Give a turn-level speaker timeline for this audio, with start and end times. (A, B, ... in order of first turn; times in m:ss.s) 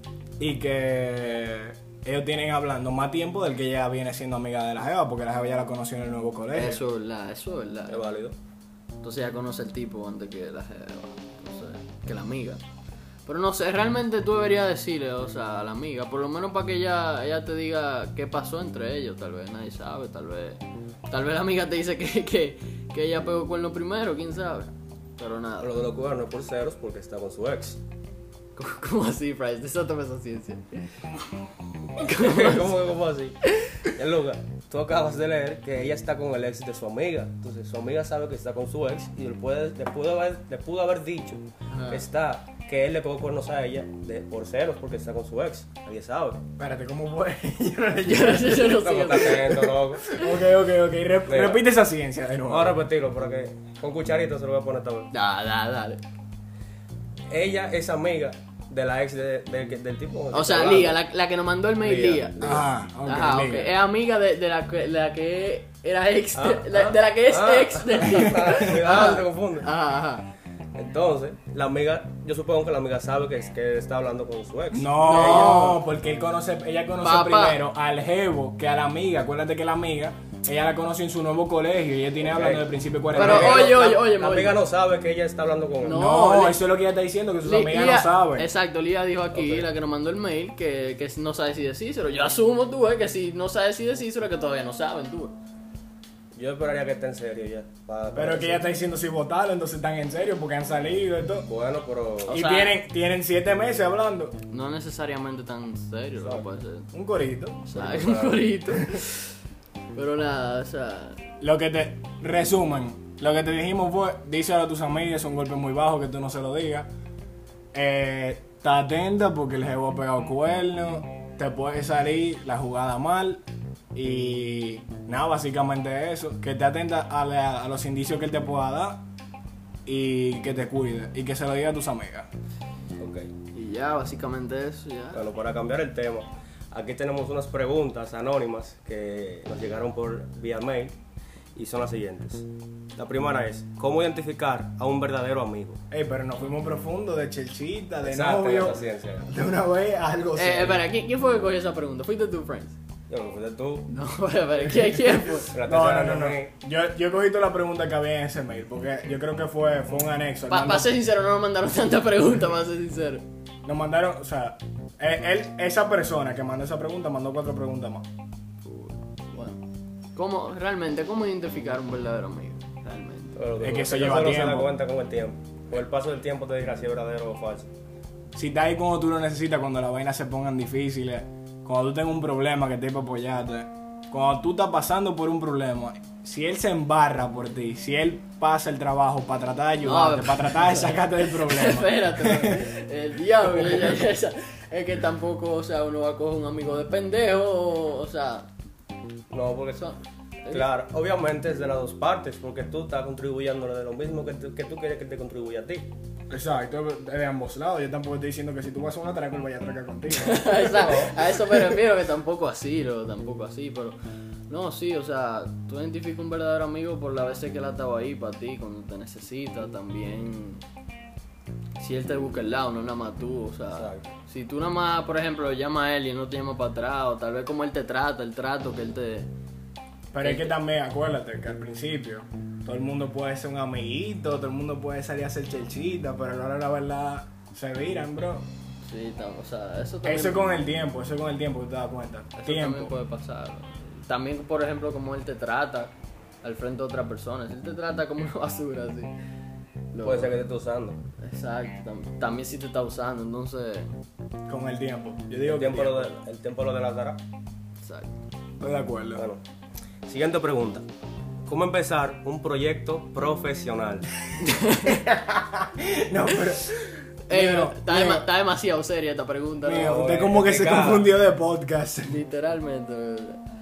0:00.4-0:06.8 A
0:06.5-0:08.0 B
0:07.9-0:08.4 C
0:09.0-0:12.6 B
0:13.2-0:25.8 B
0:25.6-0:27.8 C
0:28.6-0:30.8 B
0:32.0-0:32.7 B
0:32.0-0:46.4 C
0:41.7-0:42.1 B
0:46.6-0:52.8 A
0:48.0-0:49.7 B
0:48.7-0:50.0 C
0:51.3-0:51.6 C
0:52.5-0:55.1 C
0:55.1-0:56.0 B
0:57.3-1:01.0 C
1:00.3-1:10.3 B
1:01.8-1:02.6 C
1:02.4-1:03.7 A
1:06.3-1:09.7 C
1:10.8-1:15.5 C
1:14.7-1:23.7 A
1:15.0-1:15.8 B
1:17.0-1:17.6 B
1:22.2-1:26.0 C
1:23.1-1:24.6 B
1:25.8-1:26.6 B
1:25.8-1:28.5 A
1:27.4-1:35.3 B
1:29.3-1:29.7 C
1:36.3-1:38.6 C
1:38.1-1:41.5 A
1:41.4-1:42.4 C
1:42.3-1:42.8 B
1:42.3-1:44.4 A
1:44.5-1:46.9 B
1:46.2-1:46.4 C
1:46.9-1:47.6 A
1:47.6-1:49.3 B
1:47.7-1:48.5 C
1:49.9-1:51.2 B
1:51.4-1:56.9 A
1:57.7-2:03.4 A
2:03.9-2:09.0 A
2:09.8-2:12.3 A
2:13.0-2:13.3 C
2:13.5-2:15.2 B
2:15.1-2:20.9 C
2:21.6-2:22.4 C
2:23.0-2:25.8 C
2:25.9-2:30.8 A
2:28.0-2:29.3 C
2:30.4-2:32.7 B
2:33.1-2:33.9 C
2:33.9-2:35.5 B
2:35.5-2:36.5 C
2:35.6-2:40.9 A
2:40.5-2:43.2 B
2:43.6-2:48.0 A
2:48.6-2:49.6 B
2:50.1-2:53.3 B
2:53.3-2:57.7 C
2:53.6-2:54.7 A
2:58.3-3:12.6 A
3:09.8-3:18.5 B
3:13.5-3:14.0 A
3:19.3-3:19.8 C
3:19.8-3:20.7 B
3:20.5-3:25.9 C
3:26.3-3:30.9 A
3:30.1-3:34.0 B
3:30.6-3:31.2 C
3:34.5-3:40.6 B
3:41.8-3:49.3 B
3:43.7-3:44.1 C
3:50.1-3:58.5 A
3:50.2-3:50.5 B
3:58.8-4:00.5 B
4:00.0-4:02.9 A
4:02.4-4:09.1 B
4:09.9-4:10.4 B
4:10.0-4:11.0 C
4:11.2-4:13.9 B
4:14.5-4:16.1 A
4:15.4-4:17.2 C
4:17.8-4:18.1 B
4:18.6-4:19.2 A
4:19.2-4:19.4 C
4:20.0-4:20.8 C
4:21.4-4:24.1 C
4:24.4-4:25.0 B
4:24.8-4:28.3 A
4:27.3-4:30.2 B
4:29.6-4:32.2 A
4:29.8-4:31.1 C
4:32.0-4:33.4 B